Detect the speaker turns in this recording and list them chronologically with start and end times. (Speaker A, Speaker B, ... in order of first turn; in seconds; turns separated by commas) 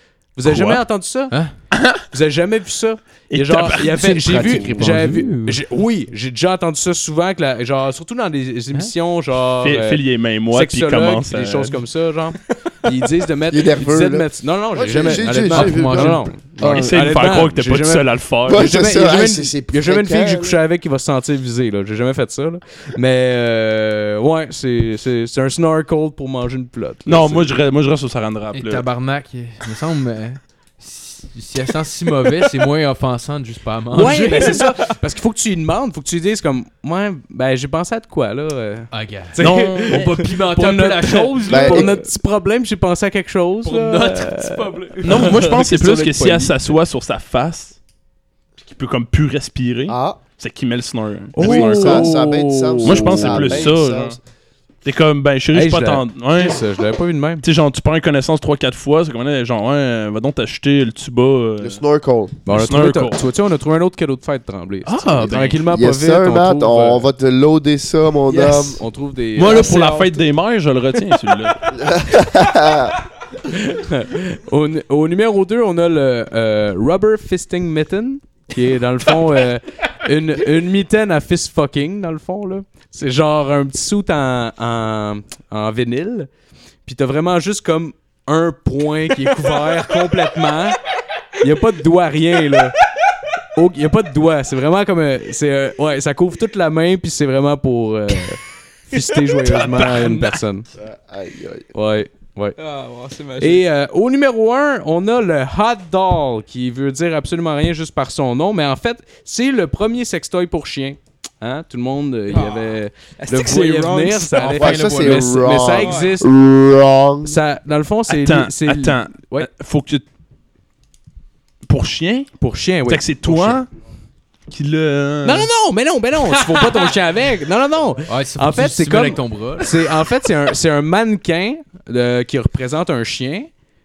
Speaker A: 0.3-1.4, Speaker B: 0.4-0.8, Speaker B: 1.7-2.0, Speaker A: 2.1-27.6, Speaker B: 3.3-4.8, Speaker C: 3.9-5.6, Speaker B: 9.6-11.8, Speaker D: 13.5-16.9, Speaker C: 15.5-16.3, Speaker B: 16.6-18.7, Speaker D: 18.5-20.6, Speaker B: 27.1-28.9, Speaker C: 28.5-34.6, Speaker A: 33.9-46.4, Speaker C: 38.9-42.0, Speaker B: 39.4-40.0, Speaker D: 41.5-42.0, Speaker C: 43.6-46.5, Speaker B: 45.0-47.8, Speaker B: 48.6-52.1, Speaker D: 49.9-50.2, Speaker A: 51.4-53.8, Speaker D: 51.4-54.2, Speaker B: 52.8-54.2, Speaker B: 54.9-56.6, Speaker A: 55.5-57.4, Speaker B: 57.4-61.8, Speaker D: 61.6-62.4, Speaker A: 62.5-67.1, Speaker B: 62.5-63.2, Speaker C: 64.9-65.5, Speaker B: 65.0-65.6, Speaker D: 65.7-68.8, Speaker E: 68.3-68.7, Speaker A: 68.8-69.9, Speaker B: 69.4-71.7, Speaker E: 69.4-70.2, Speaker D: 71.7-73.0, Speaker A: 73.5-86.3, Speaker A: 86.9-90.8, Speaker A: 91.4-92.8, Speaker A: 93.5-100.7, Speaker B: 99.5-100.4, Speaker D: 100.8-101.7, Speaker A: 101.7-102.6, Speaker E: 102.6-103.6, Speaker A: 103.4-116.3, Speaker E: 112.3-114.7, Speaker D: 114.4-117.4, Speaker C: 114.5-115.3, Speaker E: 115.7-116.1, Speaker A: 117.2-119.5, Speaker B: 118.1-120.0, Speaker B: 121.7-122.3, Speaker A: 122.4-123.6, Speaker B: 122.9-123.7, Speaker B: 124.5-125.5, Speaker A: 125.2-133.5, Speaker C: 128.1-129.7